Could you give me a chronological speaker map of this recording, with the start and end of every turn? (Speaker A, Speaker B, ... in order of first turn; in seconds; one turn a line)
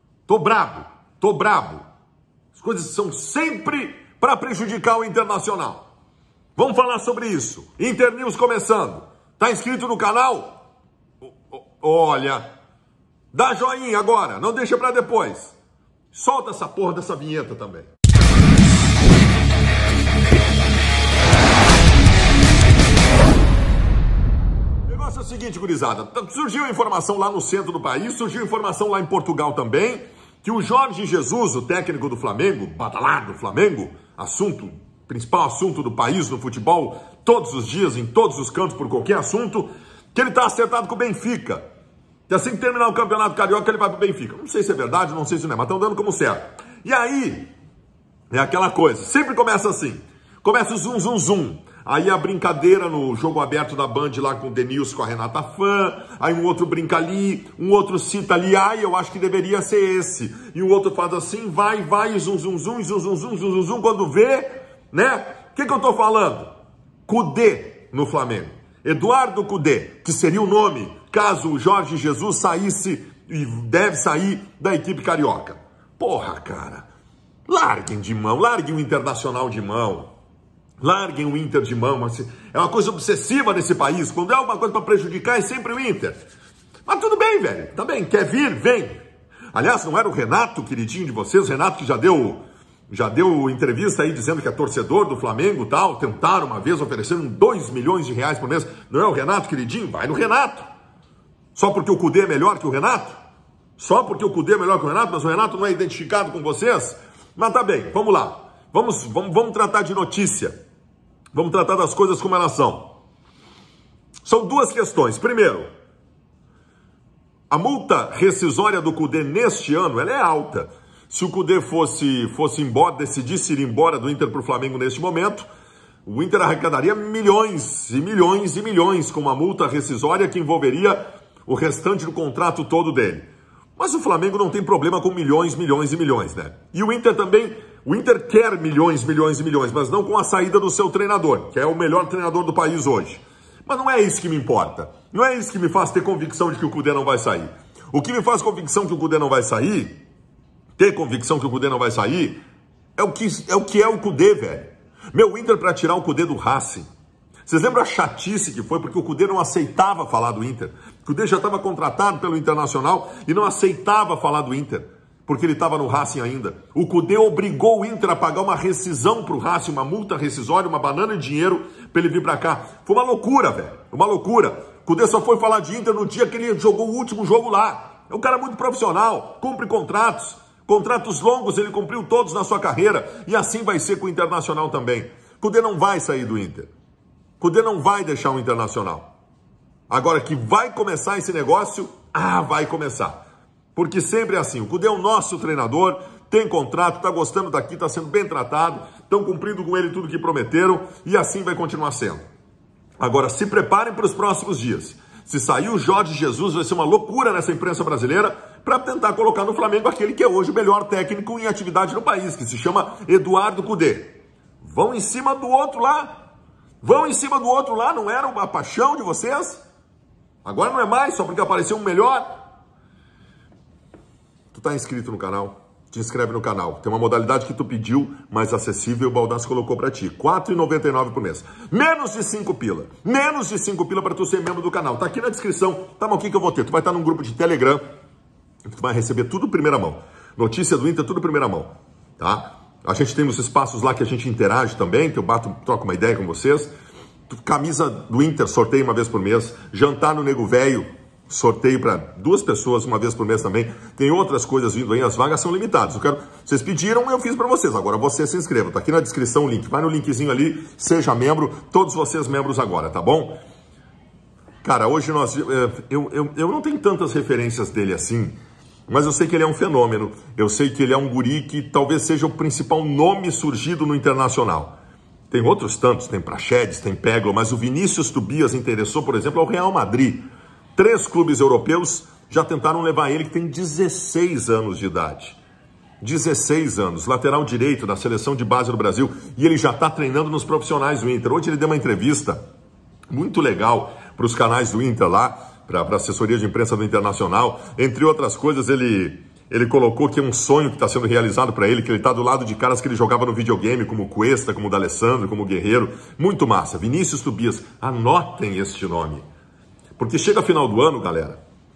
Speaker A: 0.3-1.8
Speaker A: 2.5-5.8
Speaker A: 6.6-10.6
Speaker A: 11.2-12.5
Speaker A: 13.3-15.6
Speaker A: 16.1-17.9
Speaker A: 24.9-41.6
Speaker A: 42.3-47.5
Speaker A: 48.3-66.5
Speaker A: 67.1-76.9
Speaker A: 77.5-80.1
Speaker A: 80.8-86.2
Speaker A: 86.9-89.0
Speaker A: 89.5-100.7
Speaker A: 101.5-103.2
Speaker A: 103.8-110.6
Speaker A: 111.3-112.9
Speaker A: 114.2-115.7
Speaker A: 117.5-125.5
Speaker A: 126.0-150.0
Speaker A: 150.8-152.4
Speaker A: 153.0-156.9
Speaker A: 157.5-186.7
Speaker A: 187.4-189.1
Speaker A: 189.9-193.2
Speaker A: 193.7-202.2
Speaker A: 203.0-216.2
Speaker A: 216.8-219.6
Speaker A: 220.4-222.3
Speaker A: 224.5-237.8
Speaker A: 238.7-246.7
Speaker A: 247.3-263.4
Speaker A: 264.6-268.4
Speaker A: 268.9-274.8
Speaker A: 275.3-280.2
Speaker A: 280.8-285.4
Speaker A: 286.0-292.4
Speaker A: 293.1-309.2
Speaker A: 310.0-311.4